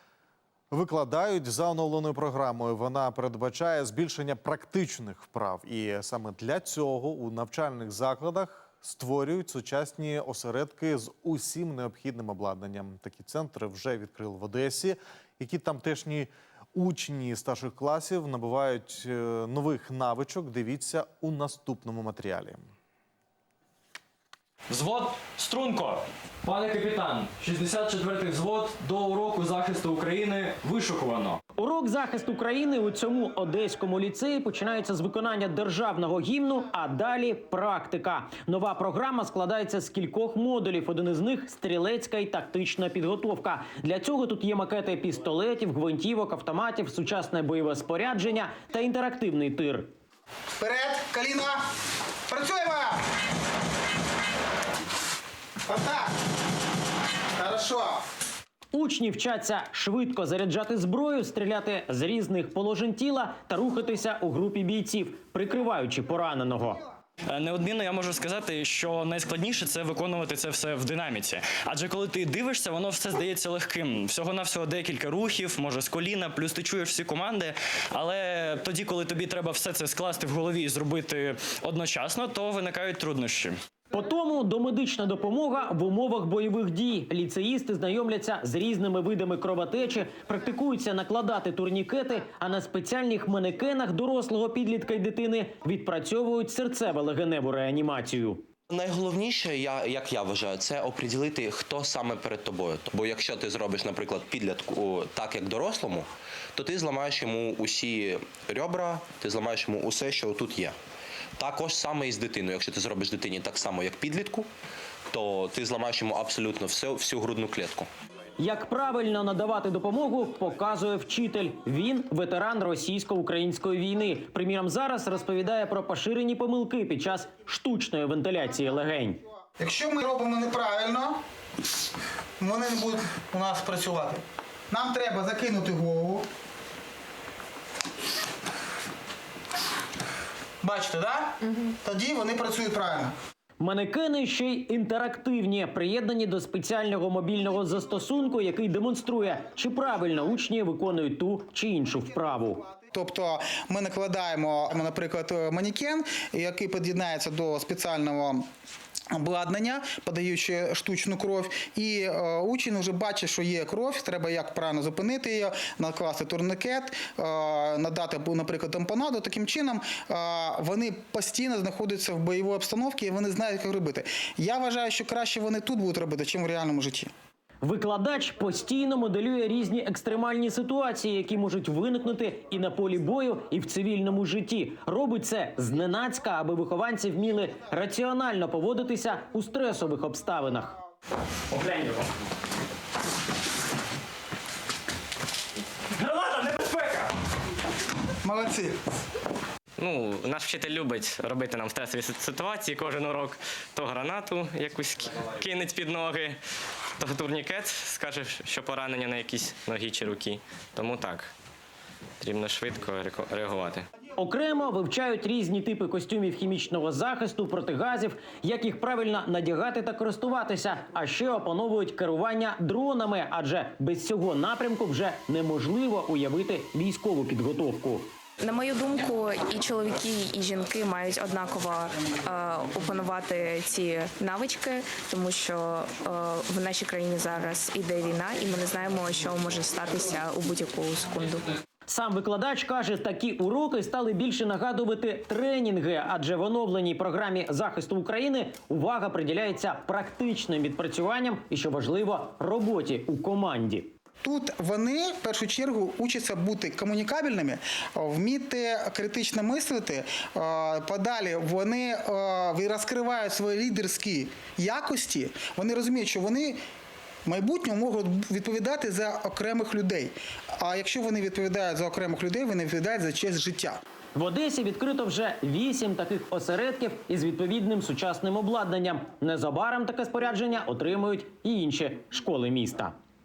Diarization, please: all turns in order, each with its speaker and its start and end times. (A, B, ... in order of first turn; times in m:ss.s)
0:00.7-0:22.7 A
0:24.7-0:31.4 B
0:31.6-0:49.9 C
0:50.6-0:51.6 D
0:52.3-0:53.0 D
0:55.6-0:56.1 D
0:57.4-0:58.0 D
0:58.7-1:06.8 C
1:07.3-1:23.6 B
1:23.9-1:38.4 C
1:38.7-1:50.8 E
1:51.4-1:54.5 E
1:55.1-1:57.9 E
1:58.4-2:09.2 C
2:09.6-2:11.2 D
2:12.4-2:16.2 D
2:20.6-2:23.2 D
2:23.6-2:32.7 C
2:32.9-2:38.4 D
2:39.1-2:57.1 D
2:57.6-3:10.8 C
3:11.5-3:12.0 B
3:16.0-3:17.1 B
3:18.2-3:18.8 D
3:19.8-3:26.4 F
3:27.0-3:31.3 F
3:32.2-3:33.9 F
3:34.2-3:48.1 C
3:48.4-4:01.5 G
4:01.9-4:13.9 C
4:14.2-4:26.6 D
4:27.3-4:33.8 D
4:34.2-4:42.9 C